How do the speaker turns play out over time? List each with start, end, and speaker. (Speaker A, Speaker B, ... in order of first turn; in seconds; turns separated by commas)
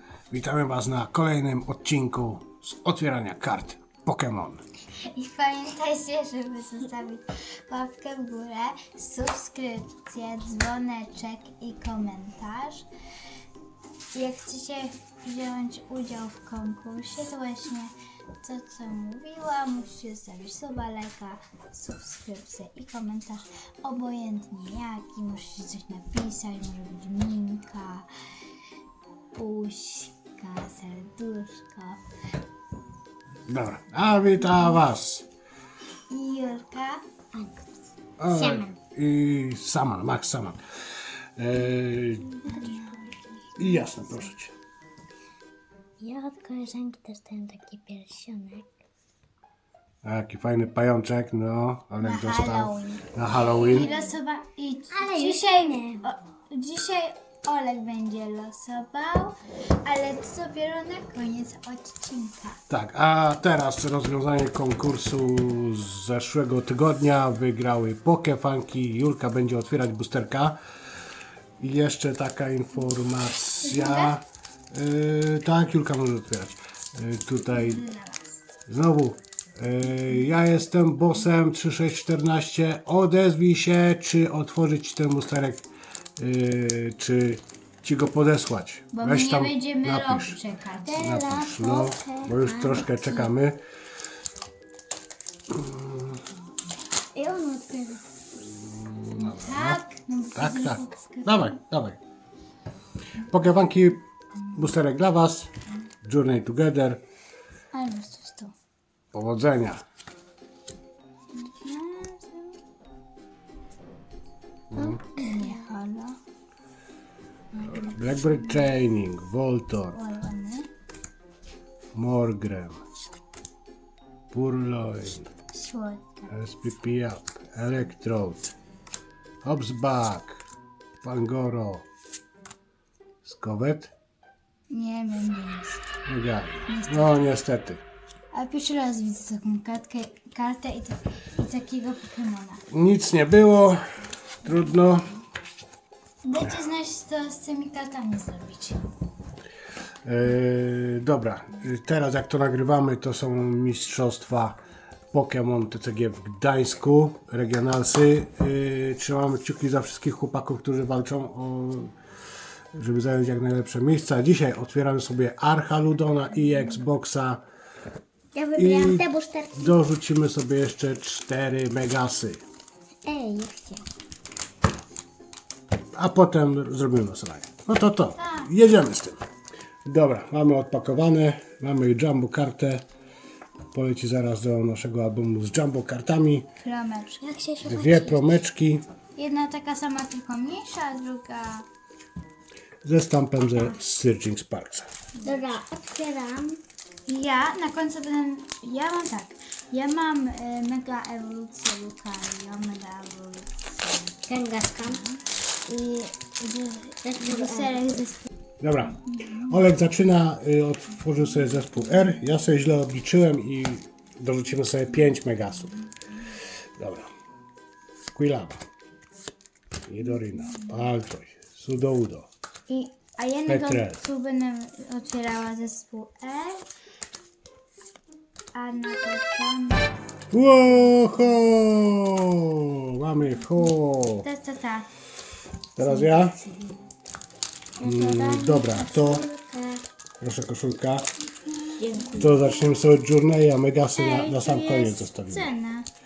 Speaker A: 0.3-4.6, Speaker B: 5.0-12.9, Speaker B: 14.1-28.1, Speaker B: 29.3-32.0, Speaker A: 33.5-35.2, Speaker B: 36.1-37.0, Speaker C: 37.3-37.6, Speaker A: 38.2-42.6, Speaker C: 38.2-38.8, Speaker B: 42.5-43.1, Speaker A: 43.6-44.5, Speaker C: 46.0-48.6, Speaker A: 50.0-53.9, Speaker B: 52.0-62.6, Speaker C: 53.6-54.1, Speaker C: 54.9-56.0, Speaker A: 62.7-70.6, Speaker A: 71.6-77.8, Speaker B: 73.6-74.2, Speaker B: 77.5-78.4, Speaker A: 78.7-85.7, Speaker A: 86.2-90.4, Speaker B: 88.9-91.0, Speaker C: 90.8-93.3, Speaker A: 90.9-93.6, Speaker A: 95.5-96.2, Speaker C: 97.1-98.0, Speaker A: 98.4-99.8, Speaker B: 99.1-101.6, Speaker A: 100.3-102.0, Speaker A: 103.2-105.5, Speaker A: 106.0-107.0, Speaker B: 107.7-108.5, Speaker A: 109.1-109.8, Speaker B: 111.3-112.6, Speaker A: 114.7-115.0, Speaker C: 114.8-115.6, Speaker B: 115.1-116.2, Speaker B: 117.5-118.0, Speaker A: 117.6-120.0, Speaker B: 119.9-120.7, Speaker A: 121.9-122.8, Speaker A: 124.3-125.3, Speaker B: 125.5-126.3, Speaker A: 126.3-128.5, Speaker A: 129.4-130.4, Speaker A: 131.0-131.8, Speaker A: 133.2-133.9, Speaker B: 134.7-135.8, Speaker A: 136.1-137.8, Speaker B: 136.7-137.2, Speaker B: 138.3-142.6, Speaker A: 142.7-145.1, Speaker B: 146.2-148.9, Speaker A: 150.0-154.6, Speaker A: 155.1-161.9, Speaker A: 162.7-167.4, Speaker C: 168.3-169.7, Speaker A: 168.6-169.1, Speaker A: 169.6-172.4, Speaker C: 173.0-173.8, Speaker A: 175.9-179.2, Speaker B: 178.2-178.5, Speaker A: 179.8-182.8, Speaker A: 183.7-186.5, Speaker B: 186.6-187.2, Speaker C: 187.2-188.3, Speaker A: 187.6-188.8, Speaker B: 189.2-191.7, Speaker A: 192.8-194.9, Speaker B: 195.1-195.6, Speaker C: 195.2-196.6, Speaker B: 197.1-204.2, Speaker C: 204.2-205.0, Speaker B: 204.8-208.3, Speaker C: 207.0-207.8, Speaker A: 208.6-215.8, Speaker B: 209.2-209.5, Speaker A: 216.8-217.1, Speaker A: 218.1-218.6, Speaker A: 219.9-222.3, Speaker B: 222.7-226.7, Speaker A: 223.5-224.0, Speaker B: 228.5-229.9, Speaker A: 230.3-234.2, Speaker B: 234.2-234.9, Speaker A: 235.8-236.4, Speaker B: 235.8-236.7, Speaker A: 237.8-239.2, Speaker C: 237.8-239.8, Speaker A: 240.2-241.1, Speaker B: 241.5-242.2, Speaker C: 241.8-242.5, Speaker A: 242.2-245.5, Speaker B: 243.9-245.9